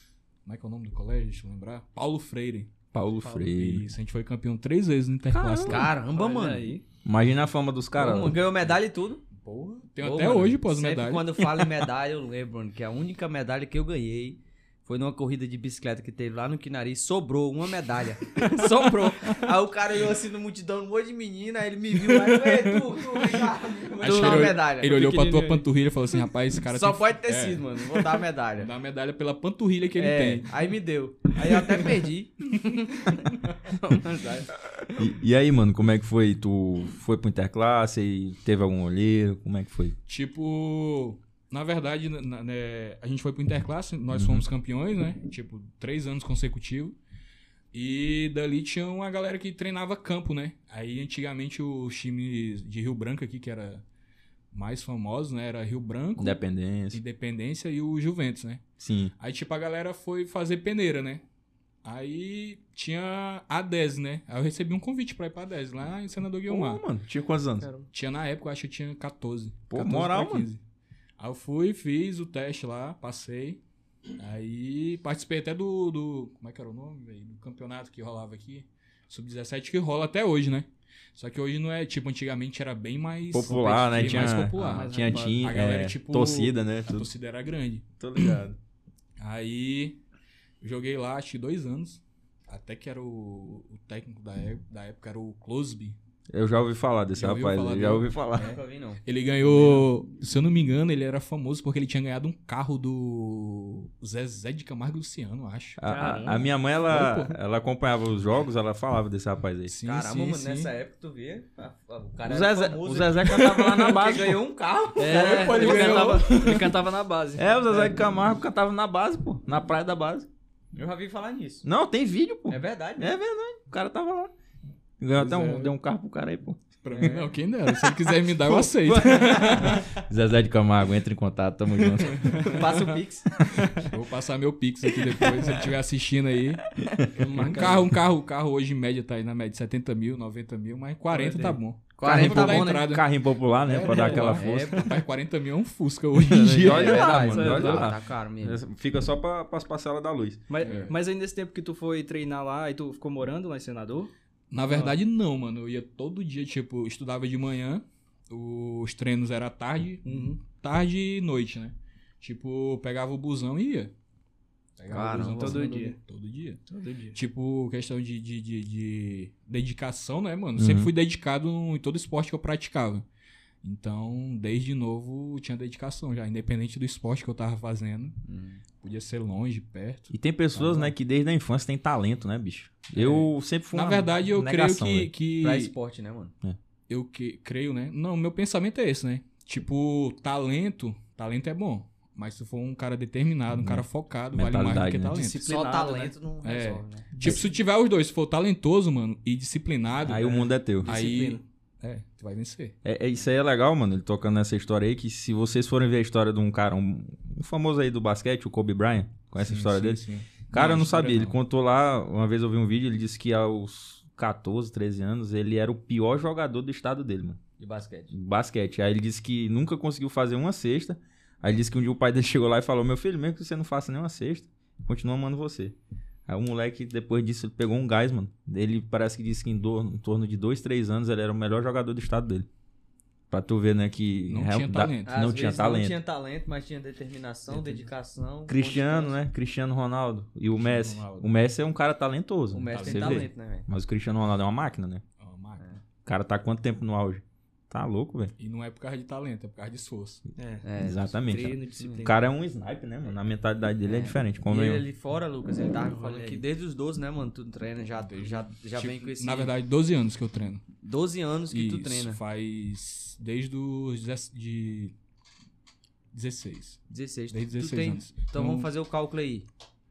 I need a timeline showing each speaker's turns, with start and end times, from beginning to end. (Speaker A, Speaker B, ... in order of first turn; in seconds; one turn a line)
Speaker A: 0.5-2.7
Speaker B: 2.9-3.9
Speaker C: 3.2-3.5
Speaker A: 3.4-5.9
Speaker B: 5.3-5.8
Speaker D: 5.7-6.7
Speaker C: 6.1-6.8
Speaker B: 7.0-8.4
Speaker D: 8.0-9.2
Speaker A: 9.3-11.5
Speaker D: 10.0-25.6
Speaker A: 22.3-22.8
Speaker A: 24.0-30.5
Speaker C: 24.1-24.4
Speaker D: 26.7-28.7
Speaker D: 30.0-34.5
Speaker B: 34.9-40.0
Speaker A: 40.1-47.0
Speaker B: 44.1-44.5
Speaker A: 47.7-53.8
Speaker A: 54.5-56.4
Speaker B: 56.2-57.0
Speaker A: 56.9-58.6
Speaker B: 58.8-59.1
Speaker A: 59.2-61.2
Speaker A: 61.8-66.8
Speaker B: 66.5-67.7
Speaker A: 67.9-70.6
Speaker B: 69.7-70.5
Speaker A: 71.2-73.6
Speaker A: 74.2-88.4
Speaker B: 83.3-87.1
Speaker C: 84.1-85.5
Speaker B: 88.0-88.6
Speaker A: 89.2-90.0
Speaker A: 90.6-96.0
Speaker B: 96.3-98.6
Speaker A: 97.1-98.1
Speaker D: 98.3-99.0
Speaker A: 99.0-105.8
Speaker B: 105.8-109.8
Speaker C: 105.9-106.4
Speaker D: 105.9-106.4
Speaker A: 106.9-107.3
Speaker A: 109.7-110.7
Speaker D: 109.8-116.7
Speaker B: 112.2-114.4
Speaker A: 113.3-113.7
Speaker C: 115.0-117.9
Speaker A: 115.0-116.7
Speaker B: 117.4-120.3
Speaker D: 120.7-121.7
Speaker B: 121.6-124.3
Speaker D: 122.5-123.1
Speaker B: 125.0-126.6
Speaker A: 125.2-125.7
Speaker A: 126.8-129.9
Speaker D: 126.9-127.3
Speaker B: 128.4-132.5
Speaker A: 132.2-132.7
Speaker D: 132.4-133.4
Speaker A: 133.8-136.7
Speaker C: 137.2-137.9
Speaker A: 137.3-143.1
Speaker C: 141.1-141.6
Speaker D: 142.0-142.9
Speaker B: 142.0-144.9
Speaker C: 143.7-144.4
Speaker D: 143.8-145.0
Speaker A: 143.9-147.1
Speaker B: 146.2-150.4
Speaker D: 146.5-148.6
Speaker C: 146.7-147.8
Speaker C: 150.5-154.1
Speaker A: 150.6-150.9
Speaker A: 154.5-163.9
Speaker C: 160.1-160.4
Speaker A: 164.8-166.6
Speaker D: 164.9-165.7
Speaker C: 165.3-166.0
Speaker C: 166.7-167.2
Speaker A: 167.1-173.1
Speaker B: 170.6-170.9
Speaker A: 173.6-178.2
Speaker D: 178.2-178.6
Speaker A: 178.8-180.9
Speaker B: 180.1-185.1
Speaker A: 182.9-185.7
Speaker D: 185.4-186.3
Speaker A: 186.9-195.4
Speaker B: 193.5-195.3
Speaker C: 195.1-196.1
Speaker D: 195.4-197.1
Speaker A: 196.4-202.8
Speaker B: 197.2-197.4
Speaker B: 200.0-200.9
Speaker C: 200.8-201.4
Speaker B: 202.8-217.4
Speaker A: 209.4-211.4
Speaker D: 217.6-218.1
Speaker B: 218.1-225.8
Speaker B: 226.3-232.5
Speaker B: 233.3-236.0
Speaker A: 234.3-235.2
Speaker D: 235.1-239.2
Speaker B: 238.5-245.0
Speaker A: 240.6-241.3
Speaker D: 242.5-243.7
Speaker A: 242.7-243.3
Speaker A: 245.2-245.8
Speaker B: 246.1-248.3
Speaker A: 248.4-250.2
Speaker C: 250.4-250.7
Speaker D: 250.6-252.1
Speaker B: 250.8-254.8
Speaker C: 251.3-252.3
Speaker D: 253.8-259.5
Speaker C: 255.8-256.4
Speaker A: 258.0-260.6
Speaker D: 260.8-262.2
Speaker A: 261.5-264.9
Speaker A: 266.1-266.8
Speaker D: 266.9-269.5
Speaker A: 267.3-268.7